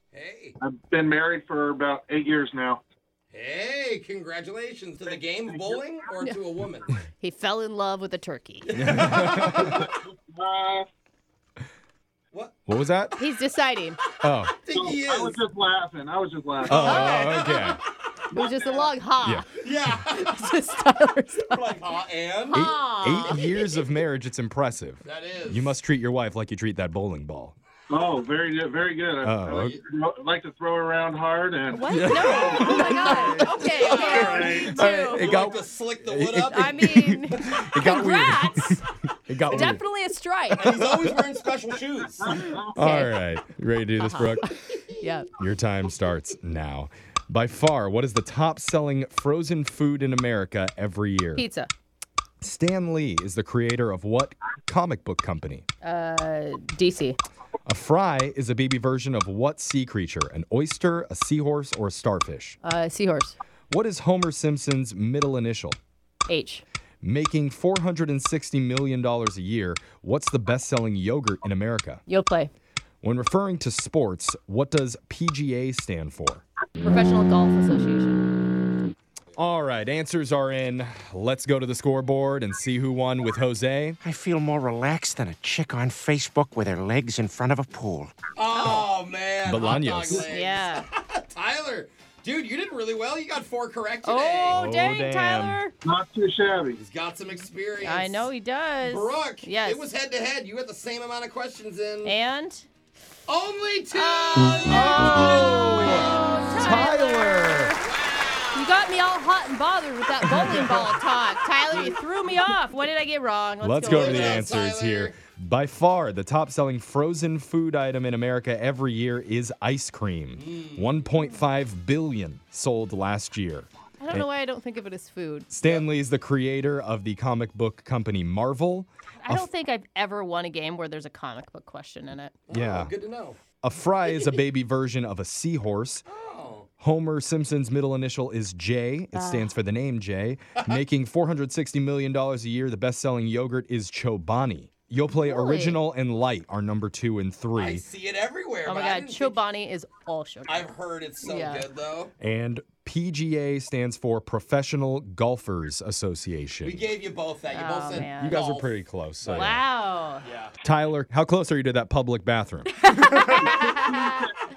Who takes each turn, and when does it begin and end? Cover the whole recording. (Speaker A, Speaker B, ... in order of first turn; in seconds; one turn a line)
Speaker A: 0.1-0.6
Speaker B: 0.6-2.8
Speaker A: 3.3-6.9
Speaker B: 5.1-5.8
Speaker C: 7.2-8.7
Speaker A: 8.7-9.8
Speaker D: 8.8-9.9
Speaker B: 9.6-10.9
Speaker D: 12.7-13.2
Speaker C: 13.2-14.0
Speaker D: 14.2-14.6
Speaker A: 14.5-15.4
Speaker B: 14.7-17.3
Speaker D: 16.6-17.8
Speaker A: 16.8-17.8
Speaker C: 16.8-17.4
Speaker C: 18.3-19.5
Speaker A: 18.4-18.9
Speaker A: 19.6-20.5
Speaker C: 20.1-21.8
Speaker A: 21.5-22.7
Speaker C: 22.5-23.4
Speaker D: 22.5-27.6
Speaker A: 25.0-25.7
Speaker B: 27.9-33.1
Speaker D: 29.2-29.8
Speaker C: 31.7-35.5
Speaker D: 31.9-39.8
Speaker A: 33.3-36.7
Speaker B: 34.1-35.5
Speaker C: 36.5-38.8
Speaker C: 39.5-40.8
Speaker A: 40.5-42.4
Speaker D: 40.7-41.1
Speaker B: 42.2-42.8
Speaker D: 42.7-44.5
Speaker C: 42.8-43.1
Speaker C: 44.0-45.3
Speaker D: 45.4-51.5
Speaker C: 51.4-51.7
Speaker D: 52.4-55.6
Speaker C: 55.8-57.2
Speaker D: 57.7-62.6
Speaker C: 62.6-63.4
Speaker D: 63.7-65.8
Speaker C: 66.3-66.6
Speaker D: 67.0-72.0
Speaker C: 72.1-72.5
Speaker D: 73.0-76.4
Speaker C: 76.8-78.3
Speaker D: 79.4-84.0
Speaker E: 84.0-88.1
Speaker A: 88.4-94.6
Speaker C: 88.6-88.8
Speaker D: 89.5-90.3
Speaker C: 90.1-90.9
Speaker C: 94.0-95.7
Speaker D: 94.5-95.6
Speaker B: 95.8-96.8
Speaker A: 96.8-98.3
Speaker C: 97.8-99.8
Speaker A: 98.8-102.1
Speaker C: 102.0-102.7
Speaker A: 103.3-106.2
Speaker C: 103.9-107.8
Speaker D: 104.6-107.8
Speaker A: 107.8-109.0
Speaker C: 108.5-114.5
Speaker D: 110.3-110.9
Speaker D: 113.6-124.3
Speaker A: 113.8-115.1
Speaker A: 120.3-121.0
Speaker C: 124.0-125.5
Speaker D: 125.5-129.5
Speaker C: 129.2-132.3
Speaker A: 132.5-133.4
Speaker D: 132.5-132.9
Speaker D: 133.6-136.1
Speaker A: 136.1-136.7
Speaker D: 136.8-147.8
Speaker C: 139.1-139.5
Speaker C: 145.1-145.8
Speaker A: 147.6-149.4
Speaker C: 148.7-151.7
Speaker A: 150.5-152.1
Speaker D: 152.2-156.8
Speaker A: 156.6-158.7
Speaker C: 157.5-158.4
Speaker D: 158.2-159.6
Speaker C: 159.2-160.3
Speaker A: 160.2-160.5
Speaker D: 160.6-163.5
Speaker C: 162.9-164.3